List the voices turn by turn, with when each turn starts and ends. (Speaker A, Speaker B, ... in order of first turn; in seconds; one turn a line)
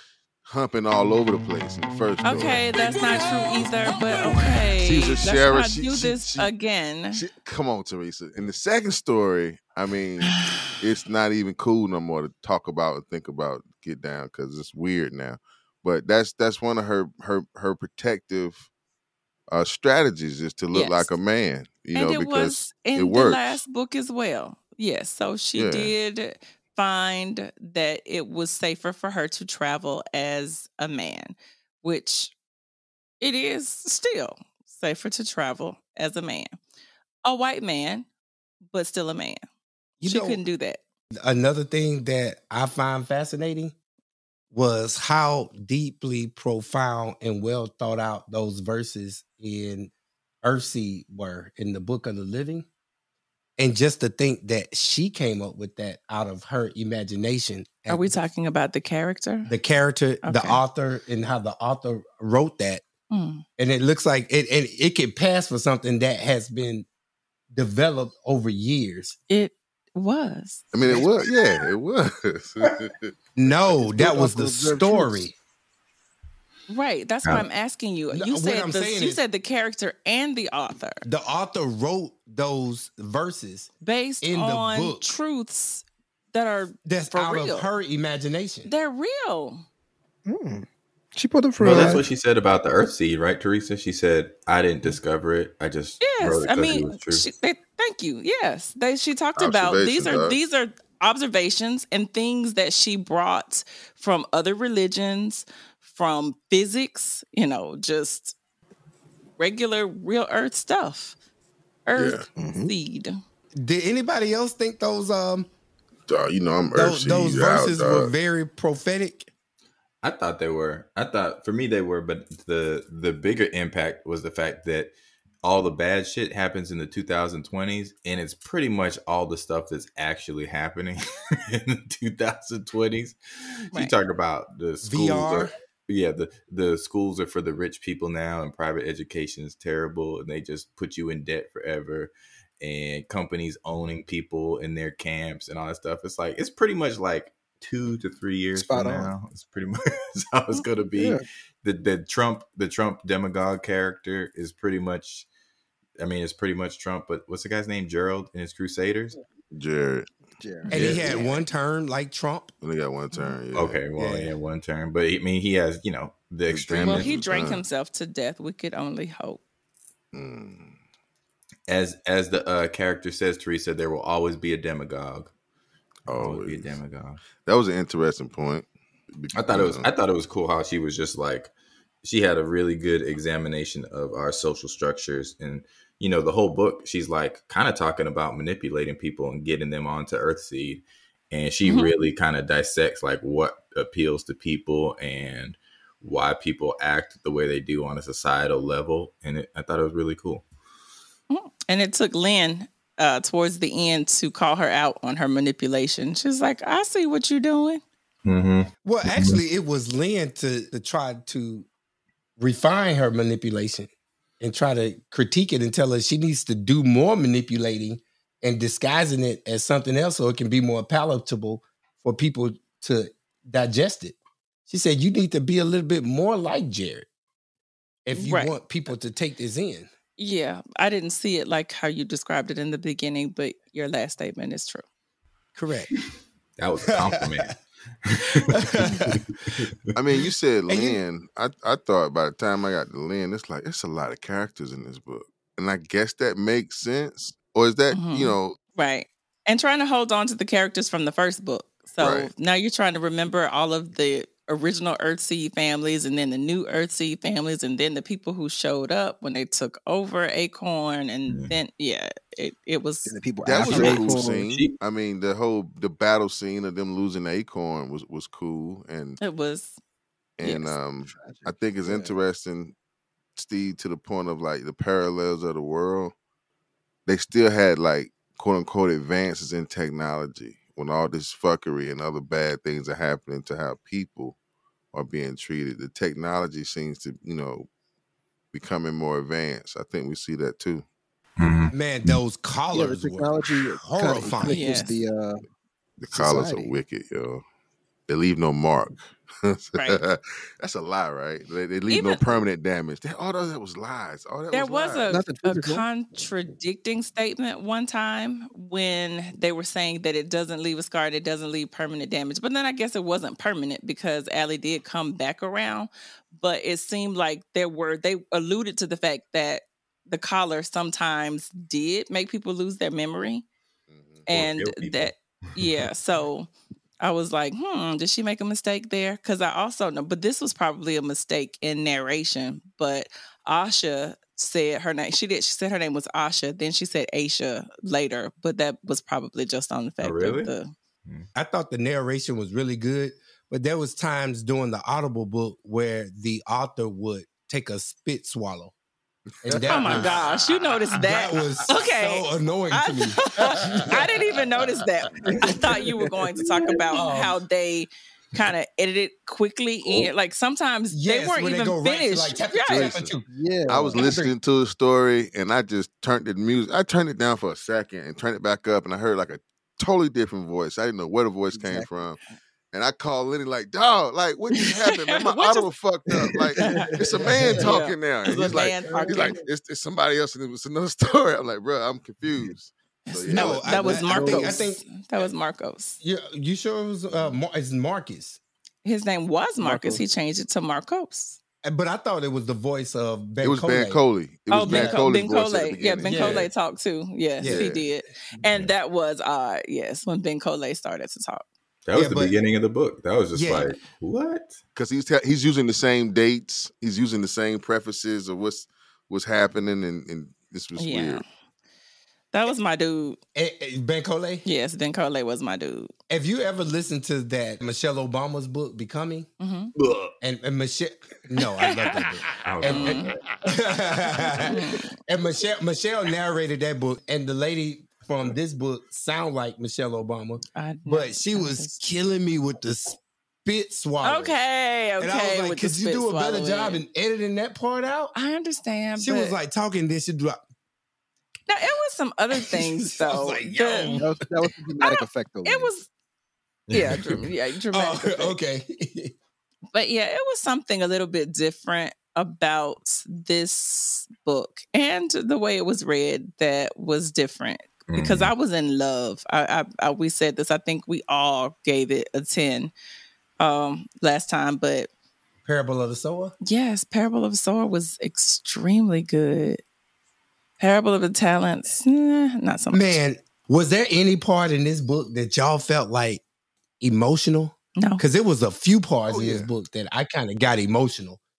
Speaker A: 0.5-2.7
Speaker B: 2.2-7.2
Speaker A: 4.1-6.5
Speaker A: 7.1-18.7
Speaker A: 19.5-23.6
Speaker B: 20.7-21.1
Speaker B: 21.9-32.3
Speaker A: 25.6-25.9
Speaker B: 33.2-36.5
Speaker B: 37.2-38.1
Speaker B: 38.7-39.4
Speaker C: 40.0-40.4
Speaker B: 40.0-40.8
Speaker C: 41.2-43.7
Speaker C: 44.5-49.9
Speaker C: 50.4-52.7
Speaker C: 53.6-58.2
Speaker B: 57.9-59.5
Speaker C: 59.5-62.8
Speaker B: 60.2-60.6
Speaker B: 63.1-63.4
Speaker C: 63.6-66.9
Speaker C: 67.5-69.2
Speaker B: 69.3-70.7
Speaker A: 70.7-73.1
Speaker C: 73.3-75.3
Speaker D: 73.8-75.3
Speaker B: 76.7-81.0
Speaker C: 78.1-79.2
Speaker C: 81.0-83.7
Speaker B: 83.8-87.7
Speaker C: 84.2-85.0
Speaker C: 86.8-88.7
Speaker B: 88.7-89.7
Speaker D: 90.2-92.0
Speaker E: 91.6-97.2
Speaker B: 96.0-108.3
Speaker A: 99.4-100.4
Speaker B: 109.4-111.2
Speaker B: 111.8-113.2
Speaker A: 111.9-112.3
Speaker D: 112.3-112.7
Speaker C: 113.5-115.5
Speaker A: 116.1-118.1
Speaker C: 116.7-119.3
Speaker E: 120.0-133.2
Speaker E: 133.7-155.3
Speaker C: 134.8-135.5
Speaker D: 148.5-149.1
Speaker E: 156.0-159.2
Speaker A: 159.5-160.1
Speaker D: 160.4-160.7
Speaker B: 160.6-161.4
Speaker E: 160.7-161.2
Speaker C: 160.7-162.5
Speaker A: 162.6-163.8
Speaker B: 163.1-163.4
Speaker E: 163.5-167.2
Speaker C: 163.9-164.3
Speaker A: 166.5-167.6
Speaker B: 166.8-169.4
Speaker A: 170.1-170.8
Speaker E: 171.7-175.3
Speaker A: 176.1-176.8
Speaker E: 176.1-177.2
Speaker A: 177.3-179.9
Speaker E: 179.3-181.5
Speaker E: 182.0-200.4
Speaker B: 191.6-191.9
Speaker B: 201.3-207.8
Speaker E: 208.2-209.4
Speaker C: 208.8-211.7
Speaker C: 212.4-224.2
Speaker C: 224.7-227.1
Speaker C: 228.1-229.9
Speaker B: 228.1-228.6
Speaker B: 230.2-234.8
Speaker C: 235.5-235.9
Speaker E: 236.6-239.8
Speaker C: 236.9-237.4
Speaker C: 238.4-239.1
Speaker A: 239.9-248.6
Speaker C: 240.7-241.0
Speaker B: 247.9-263.9
Speaker A: 252.0-252.3
Speaker E: 261.3-261.5
Speaker D: 263.1-264.4
Speaker A: 263.4-269.2
Speaker E: 263.6-264.7
Speaker B: 269.2-269.8
Speaker A: 270.4-272.7
Speaker B: 270.4-270.8
Speaker D: 271.1-272.2
Speaker A: 273.4-276.1
Speaker A: 277.1-284.4
Speaker A: 284.9-287.7
Speaker A: 288.5-290.8
Speaker E: 291.4-292.2
Speaker C: 291.7-294.8
Speaker D: 292.7-295.4
Speaker B: 294.5-295.0
Speaker A: 296.0-297.4
Speaker D: 296.1-296.7
Speaker A: 298.1-305.2
Speaker B: 299.7-300.0
Speaker B: 301.9-302.4
Speaker B: 304.5-323.4
Speaker D: 305.1-305.8
Speaker A: 323.9-324.2
Speaker B: 324.2-326.5
Speaker E: 324.3-325.9
Speaker B: 327.0-340.7
Speaker E: 340.0-340.5
Speaker C: 341.3-348.7
Speaker C: 349.4-350.2
Speaker A: 349.5-350.2
Speaker B: 349.7-363.0
Speaker C: 351.0-353.2
Speaker A: 353.5-354.7
Speaker A: 355.3-355.6
Speaker C: 356.9-357.4
Speaker C: 360.9-363.2
Speaker A: 362.7-363.1
Speaker D: 363.2-364.1
Speaker A: 363.7-372.2
Speaker C: 363.9-364.3
Speaker D: 371.5-371.9
Speaker A: 372.7-384.4
Speaker B: 374.8-375.6
Speaker B: 376.6-379.4
Speaker D: 377.4-377.8
Speaker B: 383.1-386.0
Speaker C: 383.3-384.8
Speaker C: 386.0-388.4
Speaker B: 388.8-391.4
Speaker D: 389.6-390.0
Speaker C: 391.6-394.0
Speaker A: 393.4-396.5
Speaker B: 394.5-401.4
Speaker C: 394.6-395.0
Speaker C: 396.0-396.5
Speaker C: 397.4-397.7
Speaker A: 397.4-397.9
Speaker E: 401.9-404.6
Speaker C: 401.9-402.3
Speaker C: 403.3-403.7
Speaker A: 404.8-411.2
Speaker B: 410.8-411.2
Speaker B: 412.3-413.2
Speaker C: 413.3-414.4
Speaker B: 414.4-415.9
Speaker C: 416.1-419.3
Speaker B: 419.4-419.7
Speaker E: 419.8-420.1
Speaker C: 420.2-424.6
Speaker B: 421.7-422.1
Speaker E: 422.4-423.2
Speaker B: 422.7-423.1
Speaker B: 424.5-424.9
Speaker C: 425.1-434.4
Speaker B: 430.5-431.8
Speaker B: 434.0-436.8
Speaker C: 435.0-438.1
Speaker B: 438.1-439.4
Speaker C: 439.0-440.4
Speaker B: 441.5-444.0
Speaker C: 442.3-444.5
Speaker D: 444.0-445.7
Speaker B: 444.8-445.9
Speaker E: 446.7-447.2
Speaker B: 446.7-448.3
Speaker C: 447.7-449.1
Speaker B: 449.7-462.7
Speaker E: 457.9-458.3
Speaker B: 463.4-464.9
Speaker C: 465.4-466.3
Speaker B: 466.4-469.6
Speaker B: 470.6-473.0
Speaker C: 472.7-476.2
Speaker C: 476.8-481.2
Speaker B: 477.8-478.0
Speaker A: 479.1-479.5